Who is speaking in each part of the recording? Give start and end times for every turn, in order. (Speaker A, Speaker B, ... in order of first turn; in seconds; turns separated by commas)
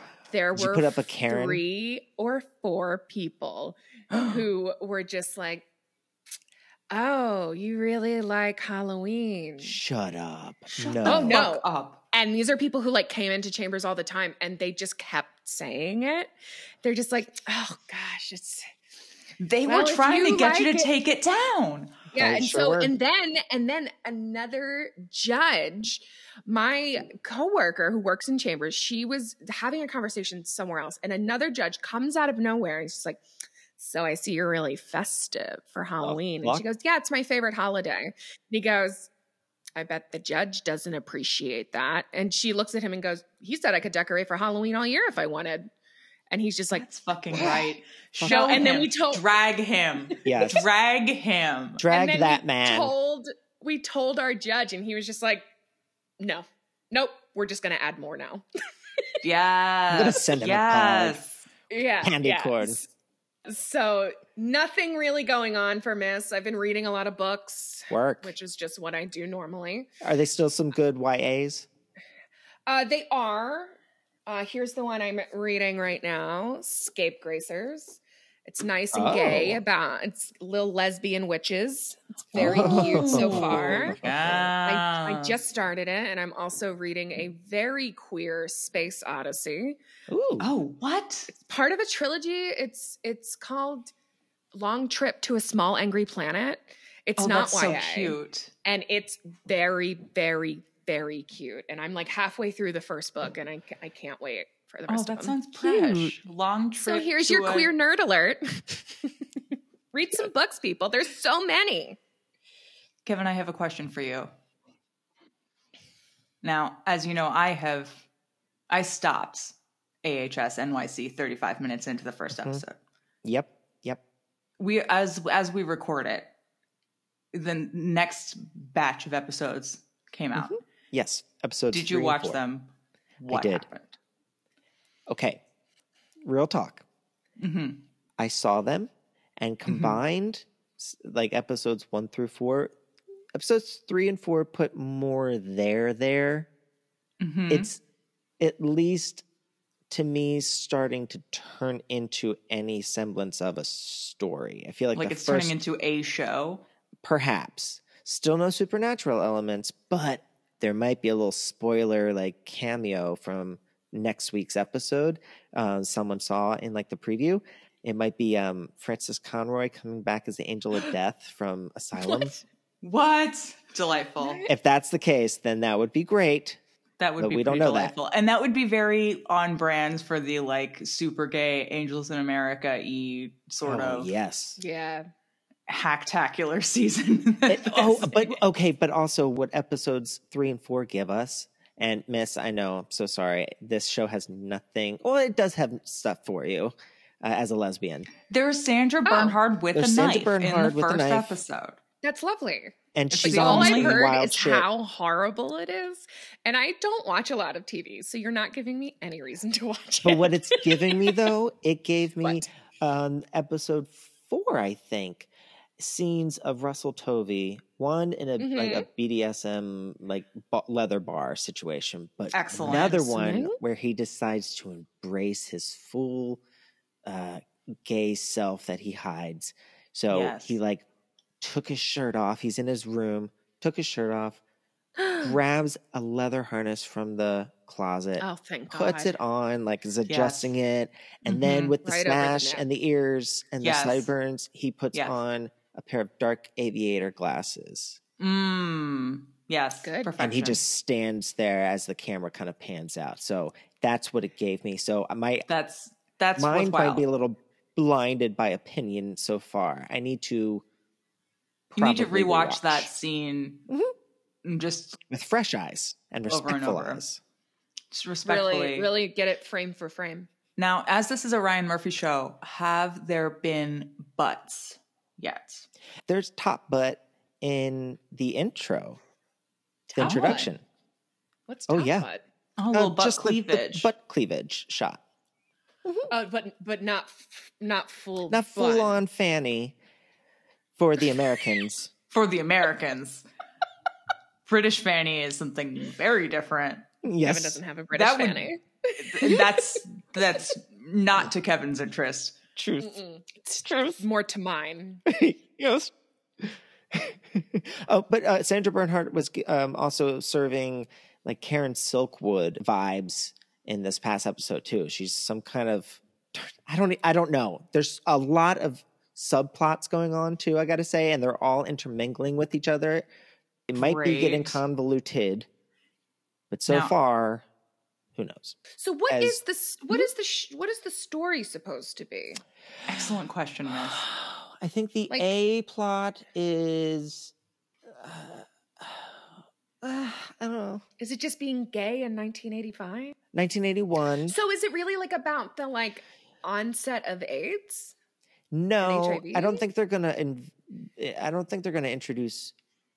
Speaker A: 0.3-5.6, Speaker B: 0.5-1.6, Speaker C: 4.1-4.4, Speaker A: 6.9-9.8, Speaker B: 9.6-11.5, Speaker C: 10.7-12.0, Speaker A: 11.0-16.3, Speaker A: 16.8-18.7, Speaker C: 19.4-22.1, Speaker A: 19.6-20.9, Speaker B: 22.1-22.9, Speaker A: 22.1-33.2, Speaker A: 33.8-39.1, Speaker B: 36.0-36.6, Speaker A: 39.8-45.7, Speaker A: 46.3-47.6, Speaker C: 46.7-51.8, Speaker B: 48.2-48.8, Speaker A: 48.3-49.2, Speaker B: 50.2-50.6, Speaker B: 51.8-52.9, Speaker A: 51.9-55.4, Speaker A: 56.2-58.4, Speaker C: 59.2-61.5, Speaker B: 59.9-61.2, Speaker A: 61.7-62.9, Speaker B: 62.0-62.8, Speaker A: 63.5-69.9, Speaker B: 67.9-68.3, Speaker B: 70.0-71.7, Speaker A: 72.7-84.0, Speaker B: 78.9-79.6, Speaker B: 82.3-84.5, Speaker C: 82.3-85.4, Speaker A: 84.6-89.8, Speaker B: 90.1-90.5, Speaker C: 90.4-91.3, Speaker A: 91.3-93.9, Speaker A: 94.5-106.1, Speaker C: 97.2-98.5, Speaker C: 104.9-107.7, Speaker A: 106.8-109.1, Speaker A: 109.9-112.0, Speaker C: 113.0-114.3, Speaker C: 116.4-118.0, Speaker C: 118.7-122.8, Speaker B: 123.2-124.0, Speaker C: 124.6-126.3, Speaker C: 127.3-130.6, Speaker B: 130.3-132.4, Speaker C: 131.7-133.9, Speaker B: 133.3-133.6, Speaker B: 135.1-135.4, Speaker B: 136.2-136.8, Speaker C: 137.4-137.8, Speaker B: 138.2-142.7, Speaker C: 139.7-140.0, Speaker B: 143.3-146.5, Speaker C: 147.2-147.7, Speaker B: 147.5-147.8, Speaker B: 148.4-149.2, Speaker B: 149.9-155.5, Speaker C: 154.9-156.6, Speaker B: 157.0-172.4, Speaker A: 172.0-172.4, Speaker C: 172.8-174.4, Speaker A: 174.2-174.5, Speaker B: 174.5-176.6, Speaker C: 177.0-184.1, Speaker B: 177.2-177.9, Speaker B: 183.6-184.6, Speaker A: 184.6-185.1, Speaker C: 185.7-188.4, Speaker B: 187.5-198.1, Speaker C: 198.3-201.8, Speaker A: 199.0-199.4, Speaker B: 199.7-201.4, Speaker A: 202.0-211.2, Speaker B: 202.9-204.7, Speaker C: 203.1-204.0, Speaker B: 210.0-226.4, Speaker A: 218.4-218.9, Speaker C: 222.3-223.3, Speaker A: 223.2-223.6, Speaker B: 227.1-230.8, Speaker C: 230.1-230.6, Speaker B: 231.4-234.4, Speaker A: 235.0-235.3, Speaker B: 235.2-248.0, Speaker A: 238.2-239.2, Speaker C: 240.1-240.5, Speaker C: 241.2-241.8, Speaker A: 241.8-242.6, Speaker C: 243.6-244.1, Speaker C: 248.2-250.6, Speaker A: 249.8-250.1, Speaker B: 250.2-255.4, Speaker C: 255.5-257.0, Speaker B: 256.4-260.6, Speaker B: 261.7-262.9, Speaker C: 261.8-263.6, Speaker C: 264.4-265.0, Speaker B: 265.1-267.2, Speaker C: 266.3-267.0, Speaker C: 267.9-268.9, Speaker A: 268.2-270.3, Speaker C: 270.6-275.7, Speaker B: 276.1-279.0, Speaker A: 279.9-280.5, Speaker B: 279.9-280.6, Speaker C: 280.0-280.5, Speaker A: 281.5-282.2, Speaker B: 281.7-282.1, Speaker C: 282.6-283.9, Speaker B: 282.7-285.0, Speaker B: 285.8-286.1, Speaker A: 286.1-289.0, Speaker B: 288.3-289.8, Speaker B: 290.8-291.9, Speaker C: 292.1-293.2, Speaker C: 294.4-296.8, Speaker B: 297.0-297.6, Speaker A: 297.2-299.7, Speaker C: 297.9-302.4, Speaker B: 302.6-304.0, Speaker A: 302.8-303.3, Speaker A: 304.0-305.0, Speaker B: 305.1-323.1, Speaker B: 323.7-325.5, Speaker C: 323.7-324.6, Speaker B: 326.5-327.4, Speaker C: 326.7-326.9, Speaker B: 328.1-328.6, Speaker A: 328.7-332.4, Speaker B: 329.1-329.4, Speaker C: 332.9-334.0, Speaker B: 333.7-337.3, Speaker B: 337.9-340.8, Speaker A: 341.0-343.1, Speaker B: 343.3-344.3, Speaker A: 344.3-347.9, Speaker B: 348.5-352.5, Speaker A: 348.8-349.6